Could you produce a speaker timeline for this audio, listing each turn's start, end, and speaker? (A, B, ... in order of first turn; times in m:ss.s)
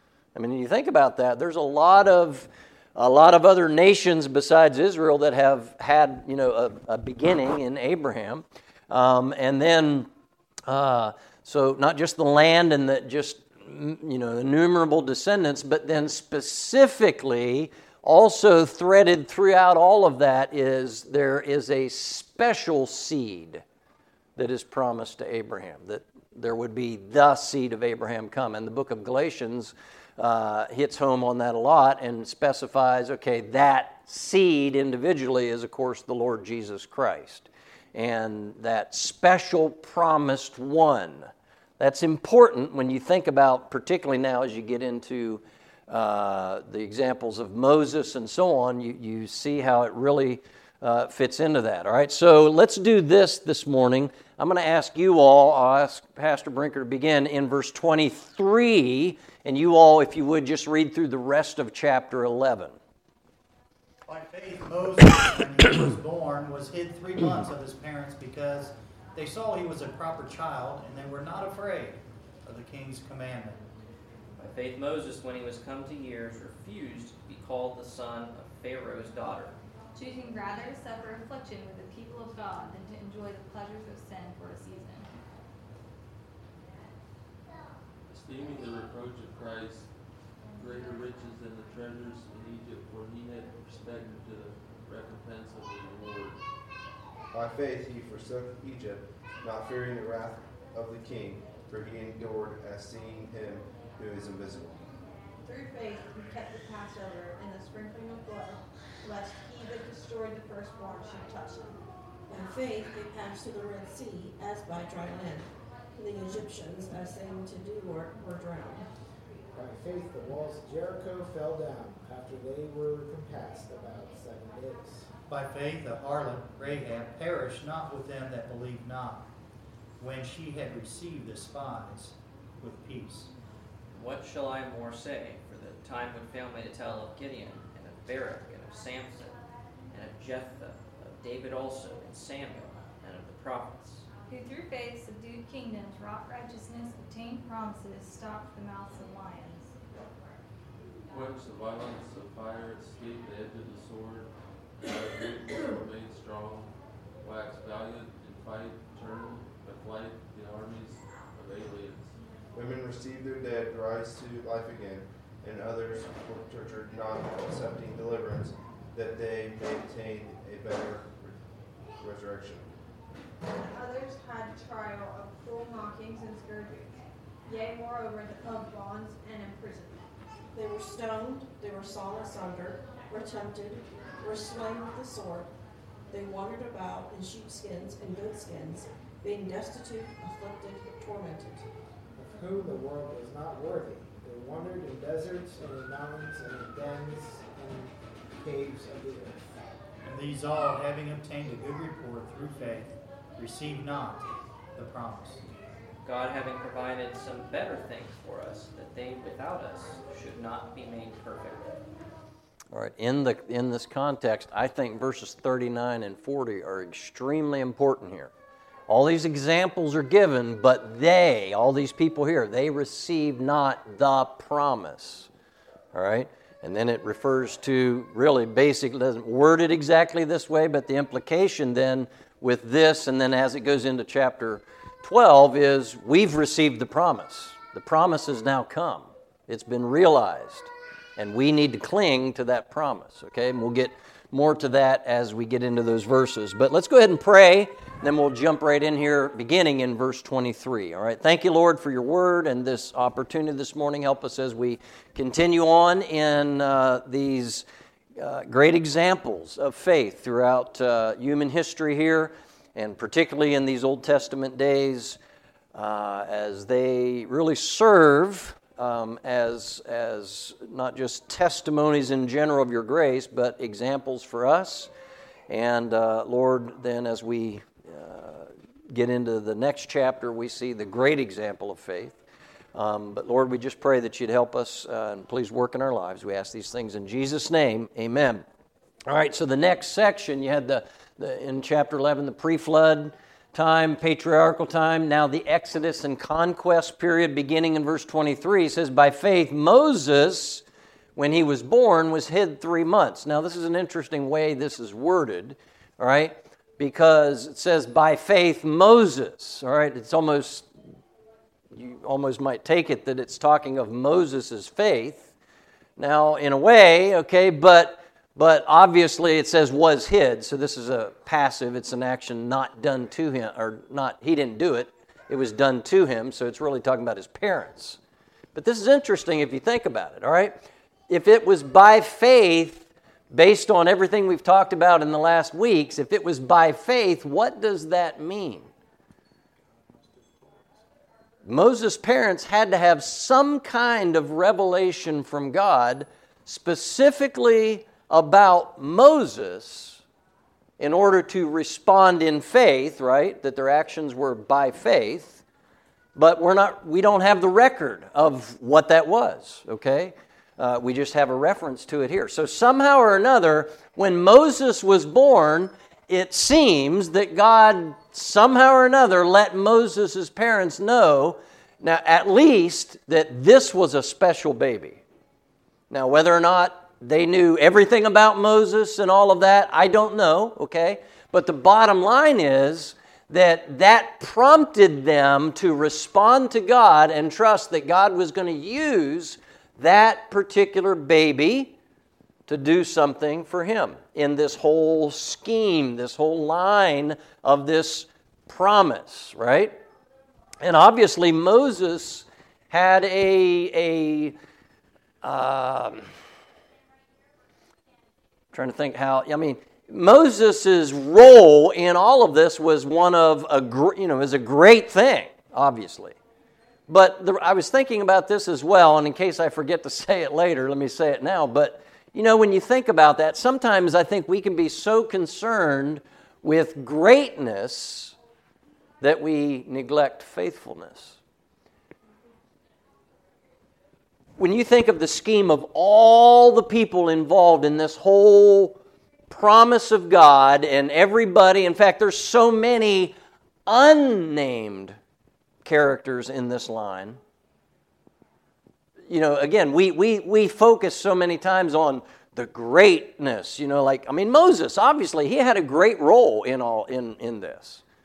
0:00.4-0:10.1 A
0:10.7-0:23.6 A
0:24.4-0:41.3 A
0:41.8-1:02.8 A
1:04.1-1:13.6 B
1:14.4-1:19.6 C
1:19.9-1:25.1 D
1:28.1-1:36.4 E
1:37.3-1:44.9 F
1:45.4-1:51.8 G
1:52.3-1:58.9 H
1:59.5-2:05.1 I
2:05.3-2:09.3 B
2:10.0-2:13.3 B
2:13.9-2:19.4 C
2:19.9-2:24.1 C
2:24.3-2:29.7 D
2:31.1-2:42.2 E
2:42.5-2:51.4 F
2:52.0-2:52.7 F
2:53.6-3:00.2 G
3:00.5-3:05.5 H
3:06.1-3:11.6 H
3:12.2-3:19.6 I
3:20.0-3:25.4 B
3:26.0-3:31.8 C
3:32.7-3:38.3 A
3:38.9-3:45.3 A
3:45.9-4:17.6 A
4:18.2-4:25.2 A
4:25.7-4:34.9 A
4:35.5-4:42.2 A
4:42.8-4:48.4 A
4:49.1-5:00.6 A
5:01.2-5:10.7 A
5:11.7-5:15.3 A
5:16.0-5:28.0 A
5:28.6-5:30.6 A
5:31.1-5:38.7 A
5:41.5-5:50.0 A
5:50.8-5:55.4 A
5:56.2-6:15.0 A
6:15.9-6:31.7 A
6:32.5-6:39.8 A
6:40.6-6:44.4 A
6:45.2-6:46.1 A
6:48.5-6:56.2 A
6:56.9-7:08.2 A
7:09.0-7:11.2 A
7:14.4-7:18.8 A
7:19.3-7:23.2 A
7:23.7-7:25.0 A
7:25.6-7:27.2 A
7:29.1-7:37.8 A